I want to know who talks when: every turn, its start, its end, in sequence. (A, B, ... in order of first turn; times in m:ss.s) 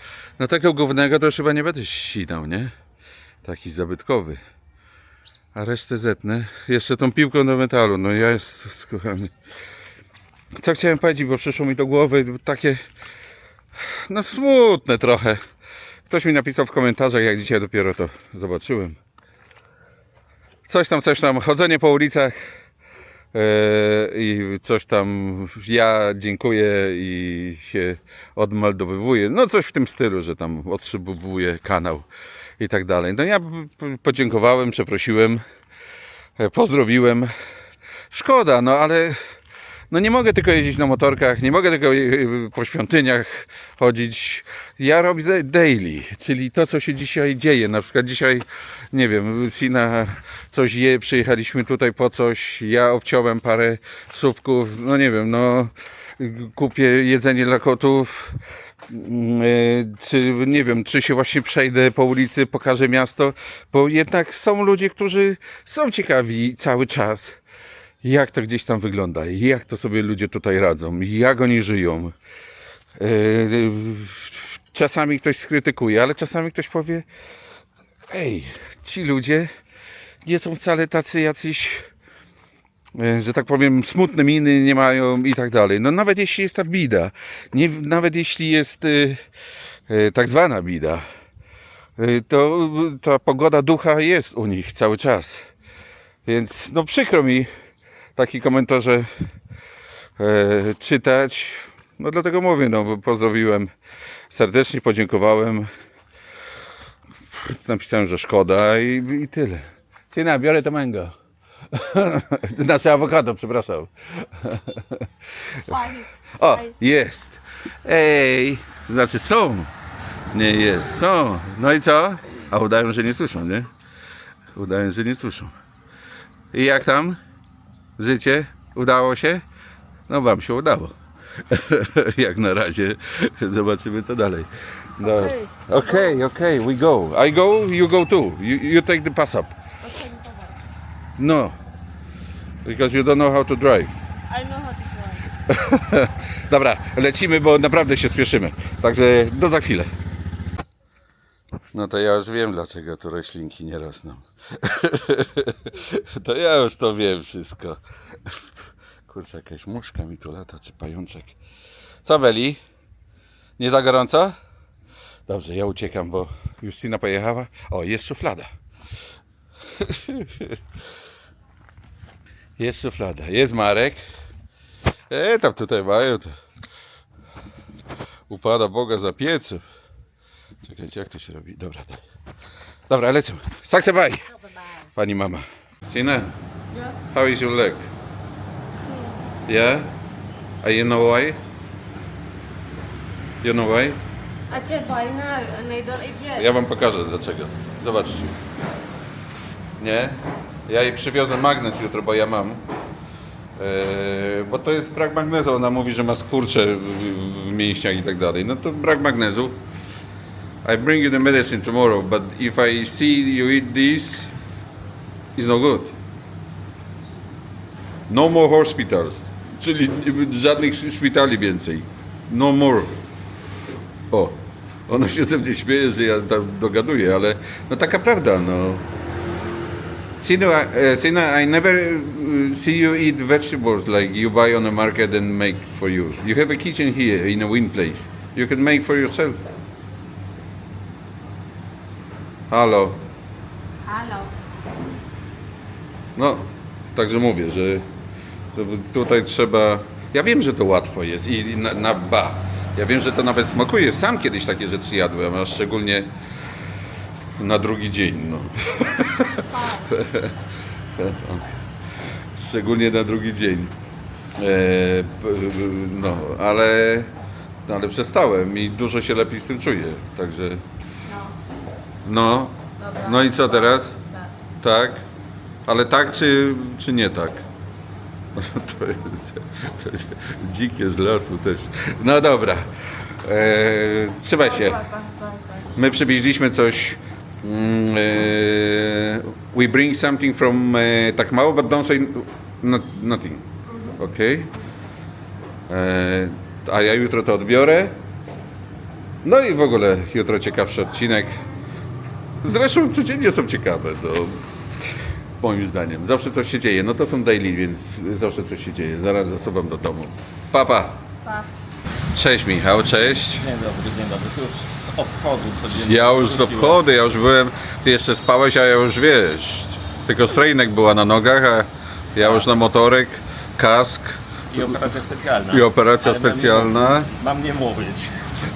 0:00.4-0:02.7 A
0:03.4-0:04.4 A
0:05.5-0:09.3 A
0:10.6-0:12.8 A
0:13.8-0:15.4 A
0:16.1-0:19.0 A
0:20.7-0:22.3 A
0:23.3-0:32.0 A
0:32.6-0:35.4 A
0:36.4-0:37.3 A
0:38.1-0:39.2 A
0:39.9-1:07.4 A
1:08.0-1:12.1 A
1:13.0-1:17.0 A
1:18.1-1:19.5 A
1:20.2-1:21.9 A
1:22.9-1:29.2 A
1:29.9-1:31.0 A
1:32.0-1:35.4 A
1:36.2-1:37.5 A
1:38.2-1:39.1 A
1:40.2-1:43.7 A
1:44.3-1:45.7 A
1:47.3-1:51.1 A
1:51.7-1:55.1 A
1:55.7-1:56.6 B
1:56.4-1:59.7 A
2:00.3-2:03.7 A
2:04.5-2:05.5 A
2:06.5-2:07.2 A
2:08.0-2:09.4 A
2:10.1-2:11.0 A
2:11.5-2:19.5 A
2:15.0-2:16.2 B
2:19.8-2:20.5 B
2:21.2-2:21.5 A
2:22.6-2:23.9 A
2:24.3-2:25.3 B
2:25.5-2:29.9 A
2:31.7-2:38.4 A
2:39.1-2:41.3 A
2:42.0-2:42.6 A
2:43.6-2:44.4 A
2:45.3-2:48.5 A
2:49.8-2:50.6 A
2:52.6-2:54.0 A
2:55.1-2:56.3 A
2:58.3-2:59.6 A
3:00.6-3:02.0 A
3:02.9-3:04.3 A
3:04.9-3:06.3 A
3:07.1-3:07.9 A
3:09.5-3:09.9 A
3:10.6-3:11.4 A
3:13.4-3:14.0 A
3:14.5-3:16.5 B
3:16.4-3:18.3 A
3:19.8-3:22.6 A
3:23.6-3:29.6 A
3:30.6-3:34.3 A
3:35.4-3:36.0 A
3:38.1-3:43.0 A
3:44.1-3:48.8 A
3:50.2-3:59.4 A
4:02.5-4:03.0 A
4:03.8-4:04.3 B
4:06.2-4:07.8 A
4:08.5-4:16.1 A
4:17.4-4:20.4 A
4:21.0-4:21.5 A
4:22.3-4:23.7 A
4:24.4-4:27.1 A
4:27.7-4:30.6 A
4:32.0-4:34.0 A
4:32.8-4:34.3 B
4:34.6-4:35.0 A
4:35.6-4:37.4 A
4:38.3-4:42.7 A
4:43.2-4:44.8 A
4:44.6-4:45.7 B
4:45.7-4:53.4 A
4:54.0-4:54.5 A
4:55.7-4:58.0 A
4:59.2-5:01.4 A
5:02.4-5:04.4 A
5:05.4-5:11.0 A
5:12.1-5:13.4 A
5:12.9-5:16.9 C
5:15.8-5:24.8 A
5:22.2-5:22.6 C
5:24.5-5:28.3 C
5:25.5-5:27.1 A